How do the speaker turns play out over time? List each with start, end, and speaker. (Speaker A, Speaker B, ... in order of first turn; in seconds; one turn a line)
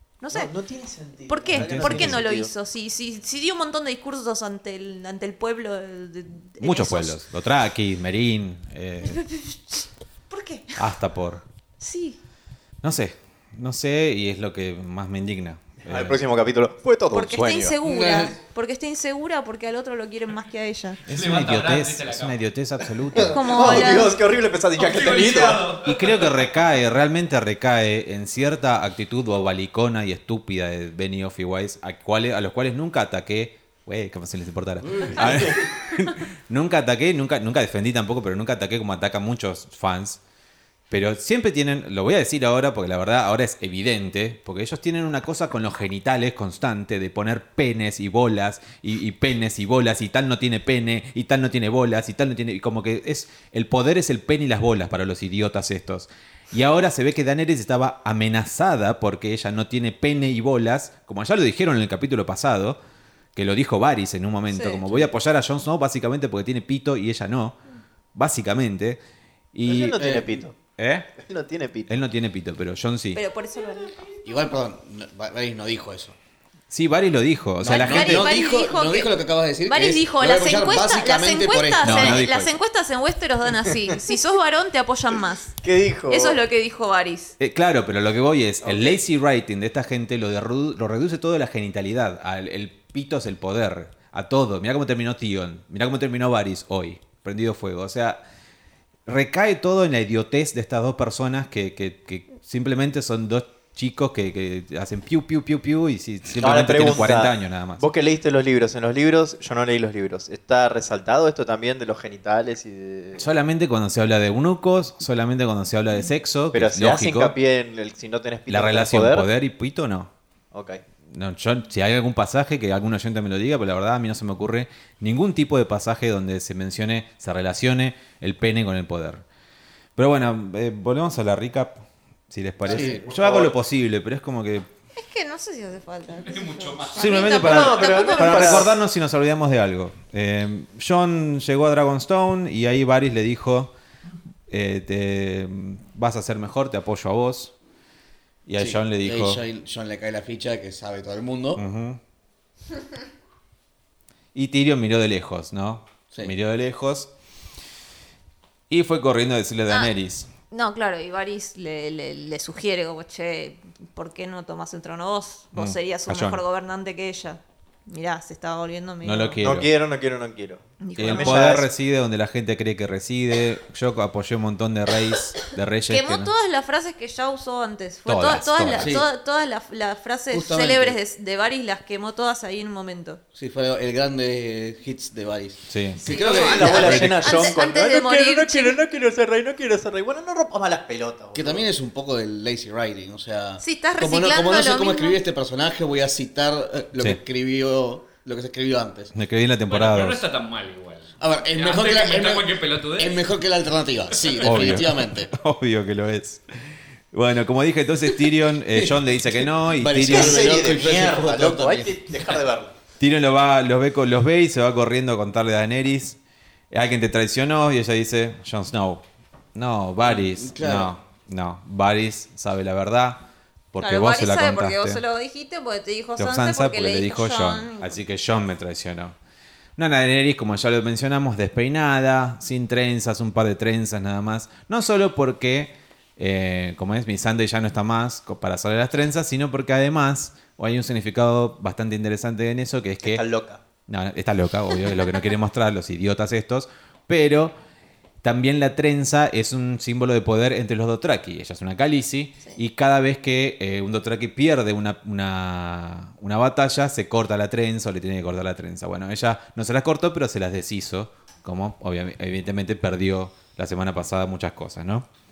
Speaker A: 0.2-0.5
Speaker B: 0.3-2.5
Speaker A: 1.3-7.2
Speaker C: 1.5-2.2
Speaker C: 6.6-9.2
Speaker A: 9.0-10.8
Speaker C: 10.8-11.4
Speaker A: 11.8-12.2
Speaker C: 12.8-16.2
Speaker B: 15.8-17.8
Speaker A: 17.1-21.0
Speaker D: 17.8-18.4
Speaker C: 21.1-23.5
Speaker E: 21.1-22.4
Speaker A: 23.1-24.1
Speaker B: 23.4-25.8
Speaker E: 24.8-26.4
Speaker C: 25.8-40.2
Speaker B: 35.2-35.5
Speaker C: 40.9-62.8
Speaker C: 63.4-67.6
Speaker A: 64.5-65.0
Speaker C: 68.1-69.0
Speaker C: 69.5-70.0
Speaker B: 69.6-70.6
Speaker D: 70.0-70.4
Speaker C: 70.8-71.1
Speaker B: 71.2-71.9
Speaker C: 71.9-73.2
Speaker A: 73.1-74.1
Speaker D: 74.2-76.2
Speaker C: 76.7-78.3
Speaker D: 77.6-82.2
Speaker A: 77.6-79.1
Speaker A: 79.6-87.3
Speaker C: 81.8-82.5
Speaker B: 85.6-86.4
Speaker C: 87.4-98.2
Speaker B: 88.6-89.0
Speaker C: 99.1-107.8
Speaker B: 106.4-113.2
Speaker C: 113.2-117.3
Speaker B: 116.5-119.3
Speaker C: 118.5-120.1
Speaker B: 120.5-120.8
Speaker C: 121.1-129.2
Speaker C: 129.9-134.7
Speaker B: 132.7-133.5
Speaker D: 132.7-133.1
Speaker A: 134.9-138.7
Speaker E: 136.2-137.3
Speaker C: 136.9-143.7
Speaker B: 137.3-138.7
Speaker C: 144.5-147.5
Speaker C: 148.4-149.4
Speaker D: 148.6-151.6
Speaker C: 151.6-152.0
Speaker C: 154.3-157.1
Speaker C: 158.7-160.3
Speaker A: 160.5-169.4
Speaker C: 165.6-166.4
Speaker C: 169.0-169.7
Speaker B: 169.4-171.7
Speaker A: 170.8-171.6
Speaker C: 171.0-176.3
Speaker A: 175.9-183.2
Speaker C: 178.1-179.0
Speaker D: 178.8-179.1
Speaker D: 180.3-181.0
Speaker D: 183.3-187.1
Speaker C: 185.7-186.0
Speaker A: 186.0-188.8
Speaker B: 186.1-191.7
Speaker C: 186.7-187.3
Speaker D: 191.3-199.1
Speaker A: 193.6-195.2
Speaker C: 199.1-200.2
Speaker E: 199.7-203.3
Speaker D: 201.2-205.3
Speaker E: 204.2-204.7
Speaker C: 204.4-206.4
Speaker C: 207.1-210.4
Speaker D: 209.7-212.0
Speaker B: 210.1-212.7
Speaker C: 213.0-216.2
Speaker C: 216.7-225.0
Speaker D: 220.1-220.9
Speaker A: 223.8-228.0
Speaker C: 226.2-229.2
Speaker C: 229.8-243.2
Speaker B: 243.0-243.6
Speaker C: 243.9-247.6
Speaker C: 248.2-265.1